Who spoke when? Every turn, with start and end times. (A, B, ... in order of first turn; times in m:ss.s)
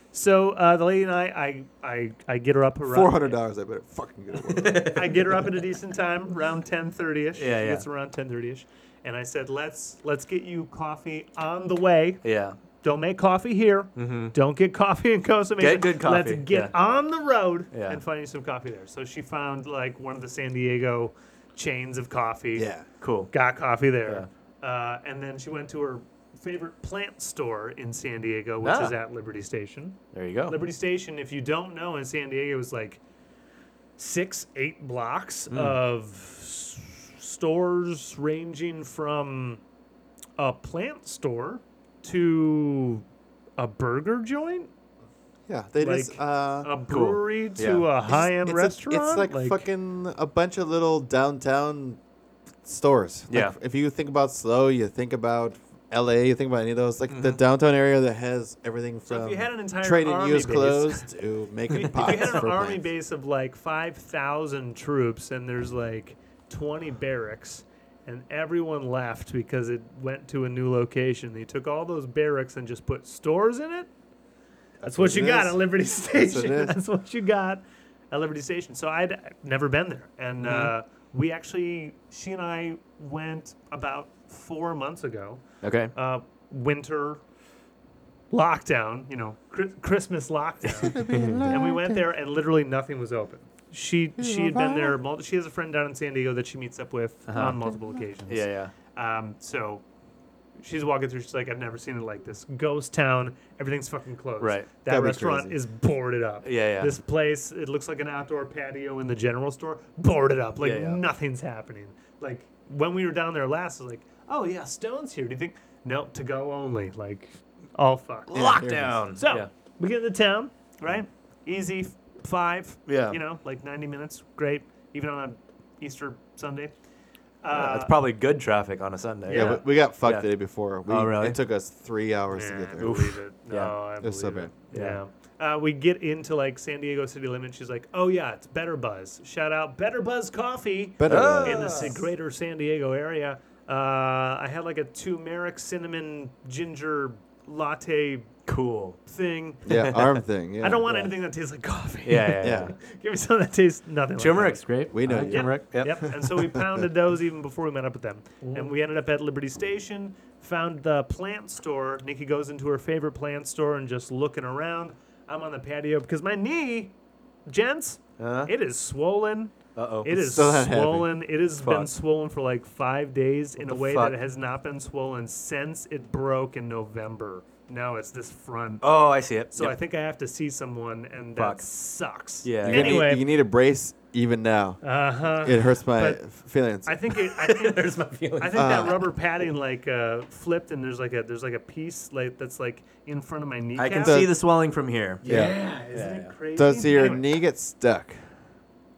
0:00.1-0:03.3 A
0:02.9-0:05.0 B
0:04.5-0:05.3 C
0:04.9-0:12.2 A
0:07.4-0:07.8 C
0:12.2-0:12.6 C
0:12.8-0:22.7 A
0:14.0-0:14.3 C
0:15.6-0:16.7 C
0:17.7-0:18.0 C
0:22.5-0:22.8 B
0:23.0-0:23.3 C
0:23.3-0:33.0 A
0:28.6-0:29.0 C
0:30.1-0:30.6 C
0:34.0-0:39.6 A
0:35.5-0:35.8 C
0:40.4-0:43.0 A
0:43.6-0:44.7 A
0:45.5-0:46.7 B
0:45.8-0:49.6 A
0:46.9-0:47.8 C
0:48.1-0:52.0 B
0:52.6-1:02.8 B
0:57.1-0:57.4 C
0:59.1-1:01.1 A
1:01.7-1:13.9 A
1:02.0-1:02.4 C
1:14.8-1:16.8 B
1:14.8-1:25.4 A
1:20.4-1:20.7 C
1:25.6-1:25.9 C
1:25.9-1:27.2 A
1:28.3-1:39.8 A
1:30.6-1:31.4 C
1:30.8-1:32.0 B
1:34.2-1:35.0 B
1:37.3-1:37.6 C
1:38.3-1:38.7 C
1:40.6-1:58.4 A
1:44.4-1:44.8 C
1:44.9-1:45.5 B
1:46.4-1:46.9 C
1:50.6-1:51.0 C
1:58.3-1:59.5 C
1:58.3-1:59.0 B
1:59.2-2:06.7 A
2:02.9-2:03.2 C
2:07.4-2:08.0 A
2:07.5-2:10.2 C
2:09.3-2:09.6 A
2:09.3-2:12.9 B
2:10.9-2:11.4 C
2:12.3-2:28.3 A
2:12.8-2:13.7 C
2:14.0-2:14.5 B
2:14.7-2:15.0 C
2:21.0-2:21.9 B
2:21.0-2:22.0 C
2:28.5-2:29.0 C
2:29.0-2:29.7 A
2:29.6-2:31.0 B
2:29.8-2:30.1 C
2:30.6-2:46.9 A
2:32.0-2:32.7 C
2:32.4-2:32.7 B
2:34.2-2:36.0 C
2:34.9-2:36.8 B
2:38.4-2:38.7 C
2:47.4-3:03.3 A
2:48.2-2:48.5 C
2:49.8-2:50.2 C
2:50.2-2:51.1 B
2:51.6-2:51.9 C
2:53.6-2:54.1 C
2:58.8-2:59.8 C
3:01.4-3:01.6 C
3:02.4-3:03.0 C
3:02.6-3:04.8 B
3:04.8-3:06.2 A
3:05.4-3:07.0 B
3:06.8-3:14.3 A
3:07.1-3:08.9 C
3:08.5-3:09.0 B
3:13.8-3:16.3 C
3:14.0-3:14.3 B
3:15.2-3:15.6 B
3:15.2-3:17.3 A
3:16.6-3:18.2 B